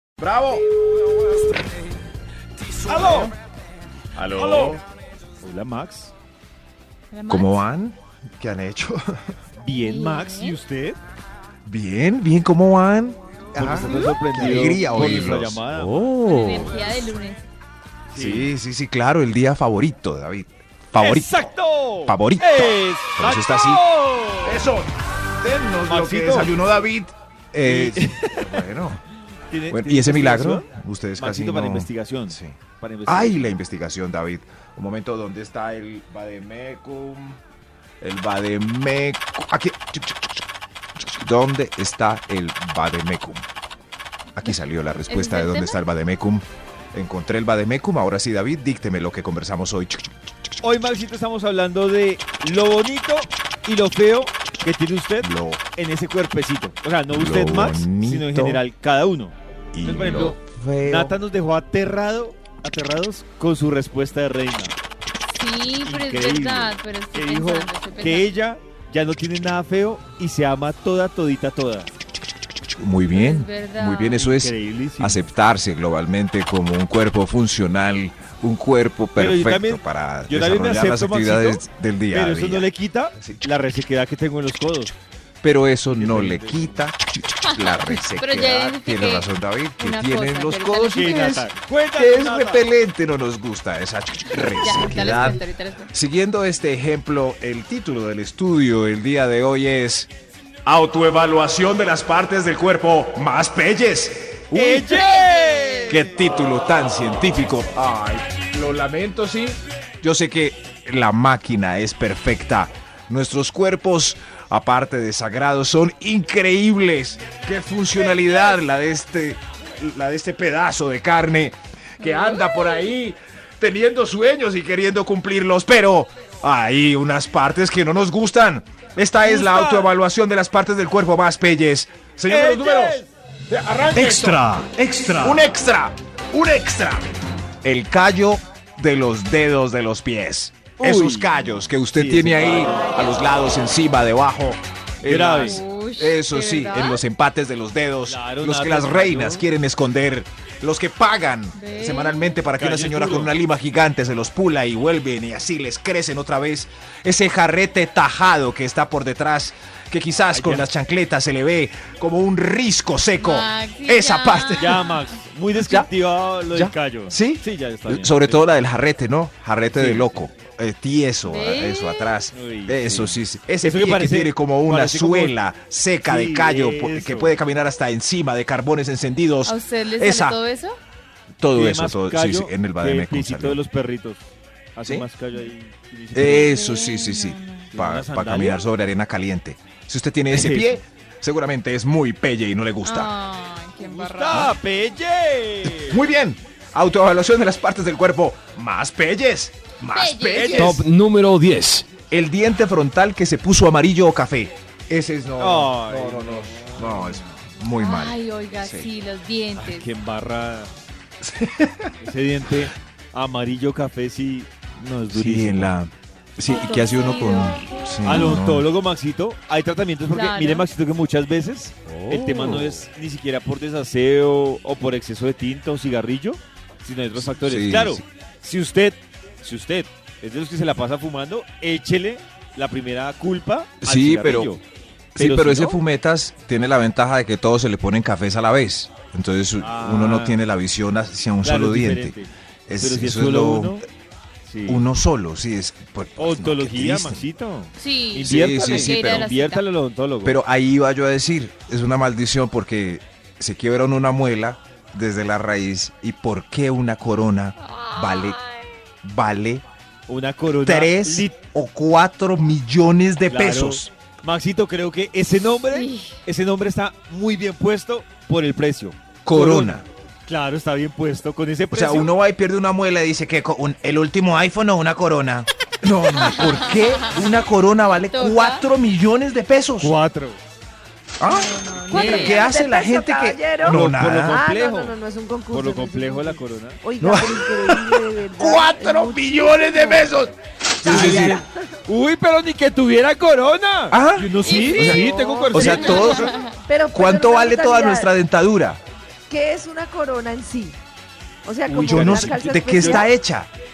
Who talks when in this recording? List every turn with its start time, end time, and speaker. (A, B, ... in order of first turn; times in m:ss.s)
0:00.2-0:01.7 A
0:02.6-0:03.3 A
0:02.8-0:03.4 B
0:04.2-0:04.8 A
0:04.4-0:04.8 B
0:05.4-0:06.1 B
0:07.1-0:07.6 C
0:07.3-0:09.3 A
0:09.6-0:11.0 B
0:09.8-0:10.6 C
0:11.6-0:16.9 A
0:13.5-0:16.1 B
0:16.2-0:17.4 C
0:18.1-0:18.5 B
0:18.2-0:21.5 A
0:21.0-0:24.6 B
0:22.1-0:23.8 A
0:24.4-0:29.0 A
0:25.9-0:26.6 B
0:27.6-0:28.6 B
0:29.5-0:33.6 B
0:29.7-0:37.4 A
0:38.0-0:40.4 A
0:41.0-0:43.5 A
0:44.4-0:50.1 A
0:45.1-0:45.8 C
0:50.6-1:04.8 B
0:55.2-0:55.6 A
0:57.1-0:58.6 A
0:59.7-1:01.2 A
1:05.3-1:08.3 C
1:05.8-1:11.9 B
1:12.6-1:23.4 A
1:13.1-1:14.2 C
1:14.2-1:15.2 B
1:19.2-1:24.9 B
1:25.4-1:40.1 A
1:25.9-1:26.8 B
1:27.4-1:31.4 C
1:30.9-1:32.6 B
1:34.6-1:35.9 C
1:40.6-1:45.0 A
1:44.5-1:46.1 B
1:44.9-1:45.9 C
1:45.9-2:17.1 A
2:02.0-2:02.8 C
2:09.2-2:09.9 B
2:12.3-2:13.1 B
2:13.9-2:15.4 D
2:17.6-2:44.8 A
2:20.8-2:21.3 B
2:21.9-2:22.9 B
2:22.7-2:23.2 C
2:25.0-2:25.6 B
2:25.4-2:27.0 C
2:28.1-2:29.5 B
2:31.6-2:32.4 C
2:32.6-2:33.4 B
2:40.3-2:40.7 B
2:43.2-2:45.1 C
2:44.6-2:48.4 B
2:45.6-2:45.9 A
2:46.5-3:00.4 A
2:49.7-2:50.2 B
2:51.2-2:52.2 C
2:52.3-2:55.4 B
2:56.0-2:57.3 B
2:59.5-3:00.8 C
3:01.4-3:03.6 A
3:01.5-3:06.6 B
3:06.1-3:13.1 A
3:06.2-3:07.7 C
3:07.7-3:08.6 B
3:10.3-3:10.8 B
3:12.8-3:14.6 C
3:13.9-3:16.0 B
3:15.8-3:20.8 A
3:19.9-3:20.7 C
3:20.3-3:20.8 B
3:20.5-3:21.9 D
3:22.1-3:28.9 A
3:25.4-3:27.2 B
3:27.8-3:29.9 C
3:29.6-3:30.7 B
3:31.2-3:31.9 A
3:32.0-3:35.7 B
3:35.1-3:38.7 A
3:36.5-3:38.2 C
3:38.0-3:54.6 B
3:40.1-3:40.6 C
3:41.9-3:42.8 A
3:47.2-3:48.0 A
3:53.8-3:54.5 A
3:55.2-3:55.8 B
3:55.2-4:02.2 A
3:59.6-4:00.4 B
4:01.4-4:03.8 B
4:02.7-4:03.8 A
4:04.5-4:04.9 B
4:04.7-4:07.3 A
4:06.2-4:10.4 B
4:07.8-4:09.6 C
4:08.2-4:09.3 A
4:10.2-4:18.4 A
4:17.6-4:18.8 C
4:19.0-4:19.6 A
4:20.1-4:21.4 B
4:20.6-4:23.9 A
4:23.3-4:32.1 B
4:25.7-4:26.2 C
4:29.2-4:29.8 A
4:31.7-4:40.0 A
4:36.4-4:36.9 C
4:38.1-4:38.6 C
4:39.8-4:40.4 B
4:41.2-4:44.4 A
4:41.2-4:42.4 C
4:41.9-4:50.1 E
4:43.6-4:45.0 B
4:45.5-4:46.8 B
4:47.0-4:51.4 A
4:50.8-4:51.5 E
4:50.9-4:56.3 B
4:53.9-4:56.4 A
4:54.4-4:55.0 C
4:54.8-4:58.1 E
4:55.8-4:56.5 C
4:56.9-4:58.8 A
4:59.3-5:00.8 E
5:01.4-5:03.1 E
5:01.7-5:03.1 B
5:01.7-5:03.5 A